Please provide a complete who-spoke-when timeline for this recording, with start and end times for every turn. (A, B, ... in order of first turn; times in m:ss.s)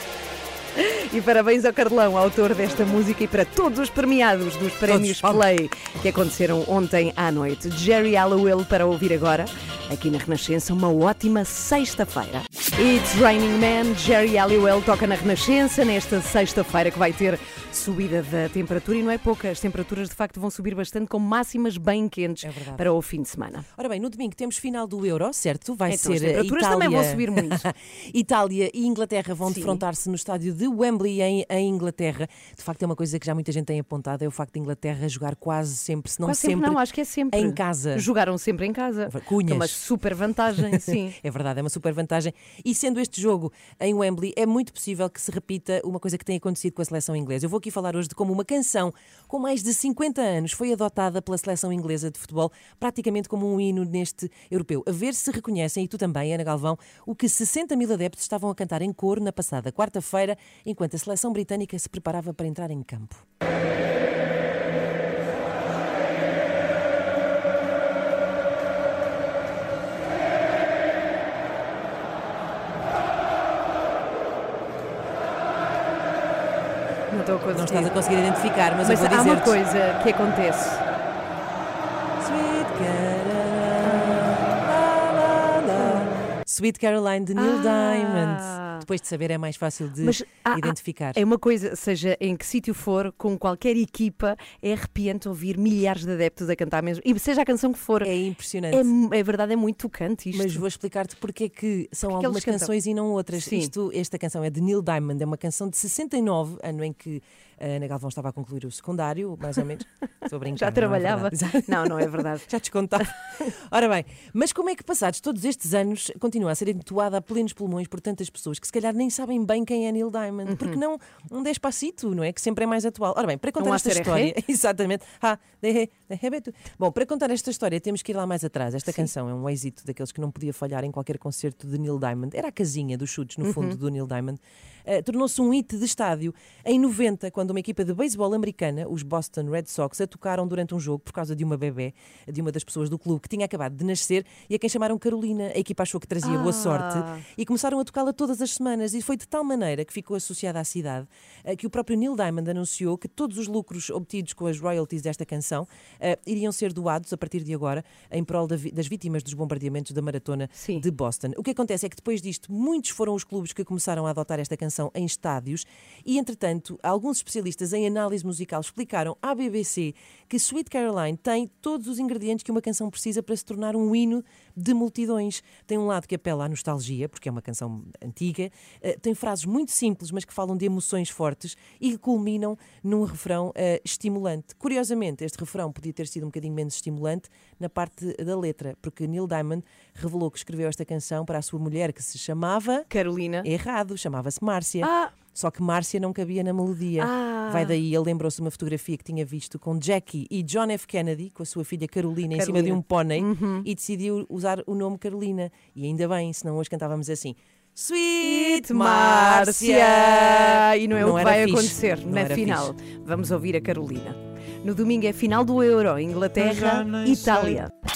0:00.8-0:23.6 A
0:04.8-0:05.4 B
0:22.4-0:22.9 B
0:23.8-0:36.8 B
0:25.9-0:27.6 A
0:29.4-0:29.8 A
0:36.2-0:41.1 A
0:37.3-0:38.1 B
0:39.1-0:39.8 B
0:40.9-1:03.2 B
1:17.1-1:17.9 A
1:17.5-1:19.5 B
1:18.8-1:20.8 A
1:22.2-1:31.2 B
1:23.8-1:24.2 A
1:25.8-1:26.0 A
1:27.4-1:28.8 A
1:30.0-1:38.1 A
1:38.0-1:38.9 B
1:38.7-1:40.6 A
1:40.3-3:12.9 B
1:42.0-1:42.7 A
1:43.3-1:43.7 A
1:50.5-1:52.4 A
2:00.4-2:00.8 A
2:03.6-2:04.3 A
2:13.4-2:13.8 A
2:26.2-2:27.2 A
2:40.6-2:40.8 A
3:12.9-3:13.5 A
3:13.4-3:32.7 B
3:14.8-3:15.1 A
3:17.0-3:17.8 A
3:22.3-3:23.6 A
3:28.2-3:37.7 A